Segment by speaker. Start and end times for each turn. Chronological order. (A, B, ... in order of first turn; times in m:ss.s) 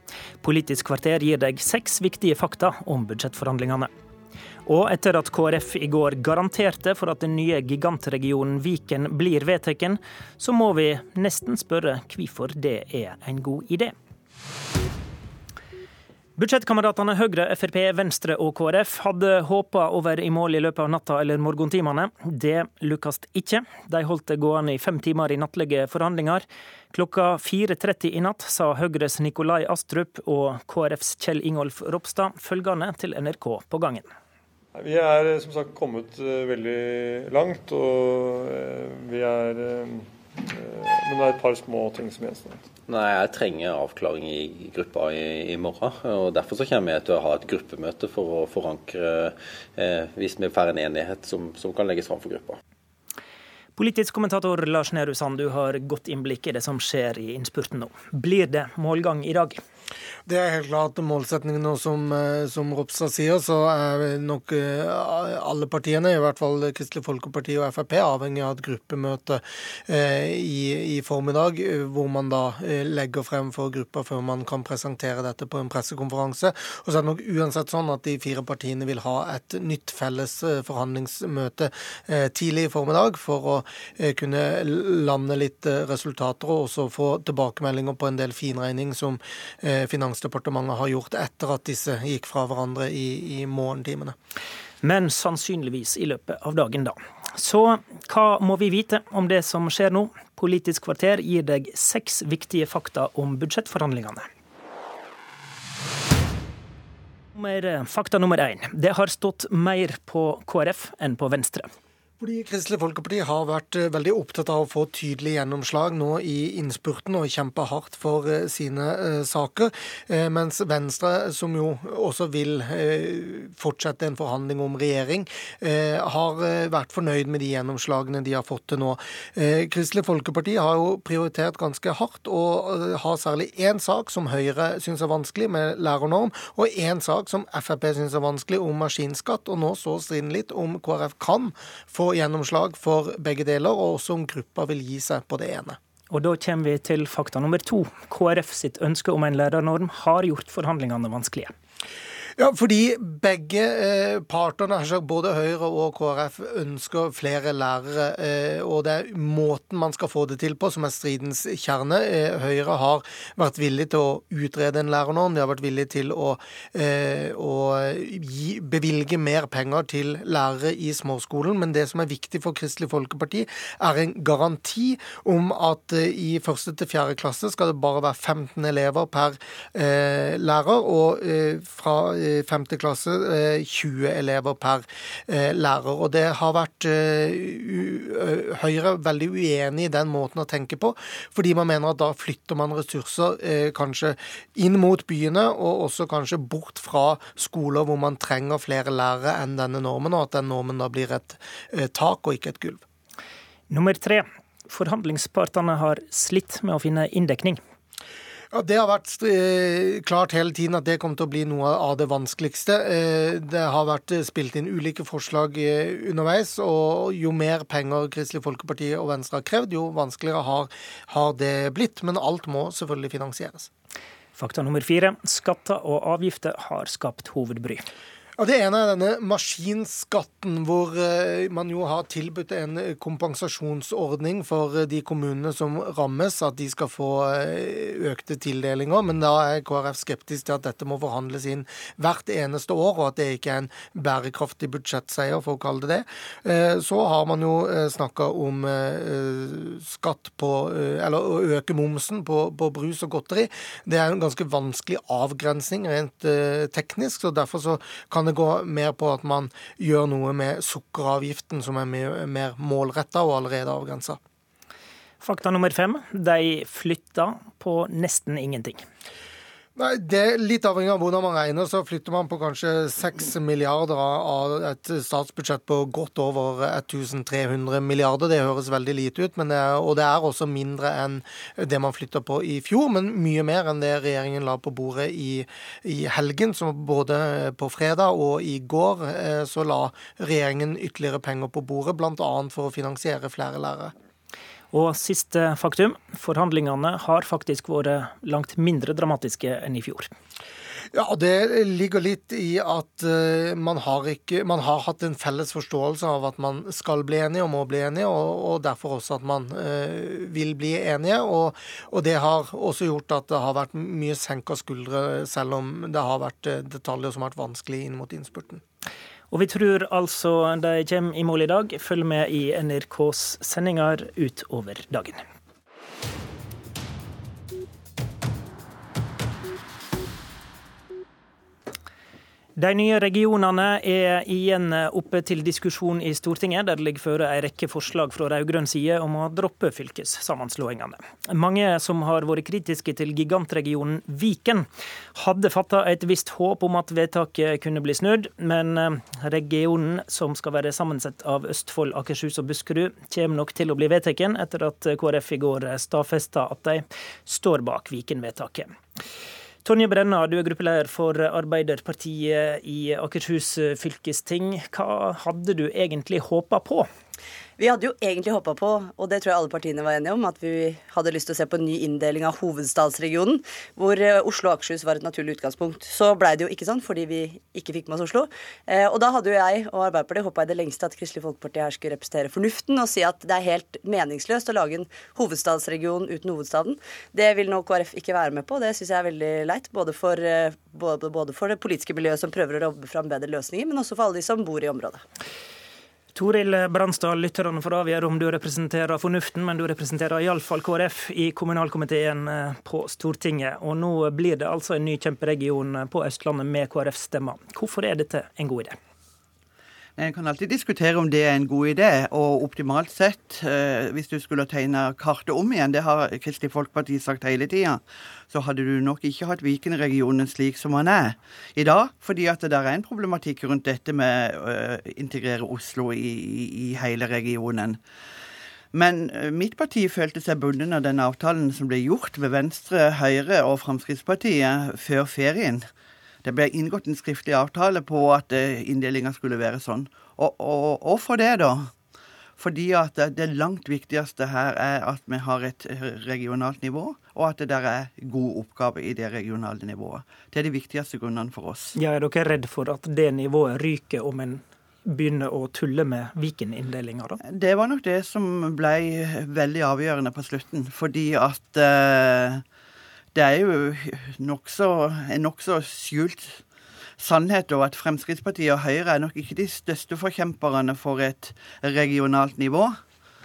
0:00.4-0:03.9 A
0:04.6-0:13.9 A
0:16.4-0:34.1 A
0:34.7-0:42.6 B
0:42.8-0:52.6 C
0:53.8-0:59.6 A
1:00.2-1:34.1 D
1:34.8-1:44.2 A
1:47.3-1:51.7 A
1:52.2-2:25.8 D
2:26.1-2:31.5 A
2:32.4-3:22.8 D
3:23.7-3:27.6 A
3:28.5-3:43.7 D
3:44.3-3:47.8 A
3:48.4-4:24.2 D
4:25.2-4:28.8 A
4:29.8-4:53.9 D
4:54.7-5:00.1 A
5:00.9-5:18.6 D
5:19.3-5:25.2 A
5:32.6-5:58.7 A
5:59.6-6:06.9 A
6:07.6-6:35.0 E
6:36.1-6:48.8 A
6:50.0-7:07.8 F
7:08.7-7:15.6 F
7:16.2-7:21.7 F
7:22.4-7:31.7 F
7:31.7-7:37.2 A
7:37.3-7:42.4 F
7:43.1-7:46.4 F
7:47.0-7:52.7 F